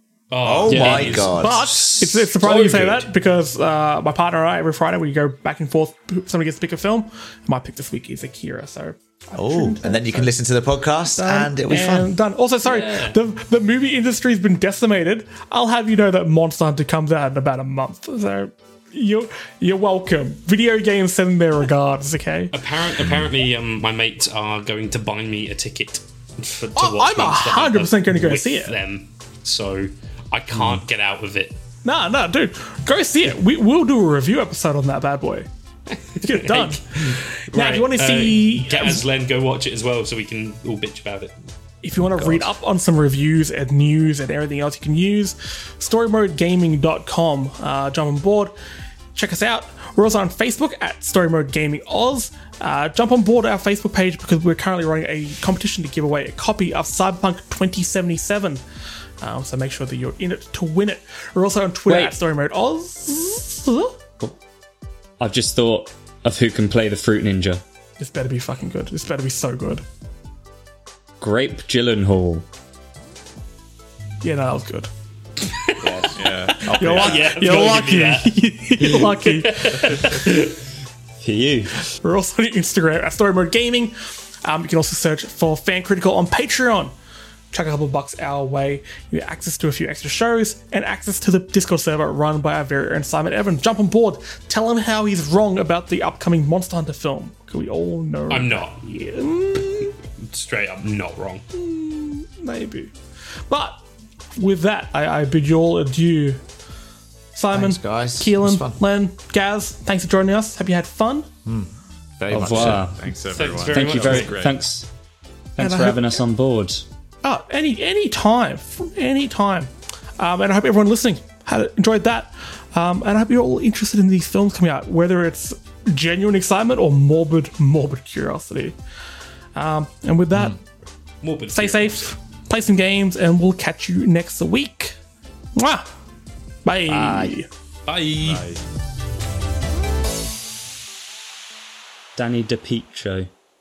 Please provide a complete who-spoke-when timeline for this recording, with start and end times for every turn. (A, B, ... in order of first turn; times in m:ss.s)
0:00.3-0:03.1 A
0:00.4-0:01.6 B
0:00.7-0:01.3 C
0:01.2-0:10.3 D
0:09.4-0:12.1 B
0:11.2-0:22.5 D
0:12.6-0:13.1 A
0:22.5-0:31.6 A
0:23.0-0:23.3 B
0:26.8-0:28.7 D
0:31.8-0:35.5 D
0:36.1-0:41.3 A
0:36.2-0:39.0 D
0:41.8-0:48.5 D
0:42.0-0:42.5 B
0:49.1-0:58.6 D
0:59.2-1:04.0 D
1:01.9-1:02.2 C
1:05.2-1:07.6 C
1:08.0-1:09.8 D
1:11.2-1:12.4 C
1:14.2-1:14.9 D
1:15.5-1:15.9 A
1:15.8-1:17.3 B
1:16.2-1:16.5 E
1:16.5-1:18.3 A
1:16.6-1:20.4 D
1:19.0-1:20.4 A
1:21.2-1:21.9 C
1:22.0-1:26.9 D
1:27.5-1:39.9 D
1:38.3-1:38.8 A
1:40.3-1:41.4 A
1:41.5-1:42.9 D
1:43.5-1:43.8 D
1:44.4-1:46.4 D
1:47.3-1:51.3 D
1:47.5-1:48.8 B
1:51.4-1:52.9 B
1:52.3-1:53.0 C
1:52.3-1:54.6 E
1:53.3-1:54.4 A
1:53.7-1:54.9 C
1:55.6-1:56.8 C
1:55.6-1:56.1 D
1:57.2-2:08.8 D
2:09.5-2:10.6 D
2:11.2-2:12.1 A
2:11.5-2:15.0 D
2:15.5-2:15.9 D
2:16.6-2:17.5 D
2:16.9-2:17.4 B
2:17.9-2:18.4 A
2:18.2-2:18.6 E
2:22.2-2:23.3 C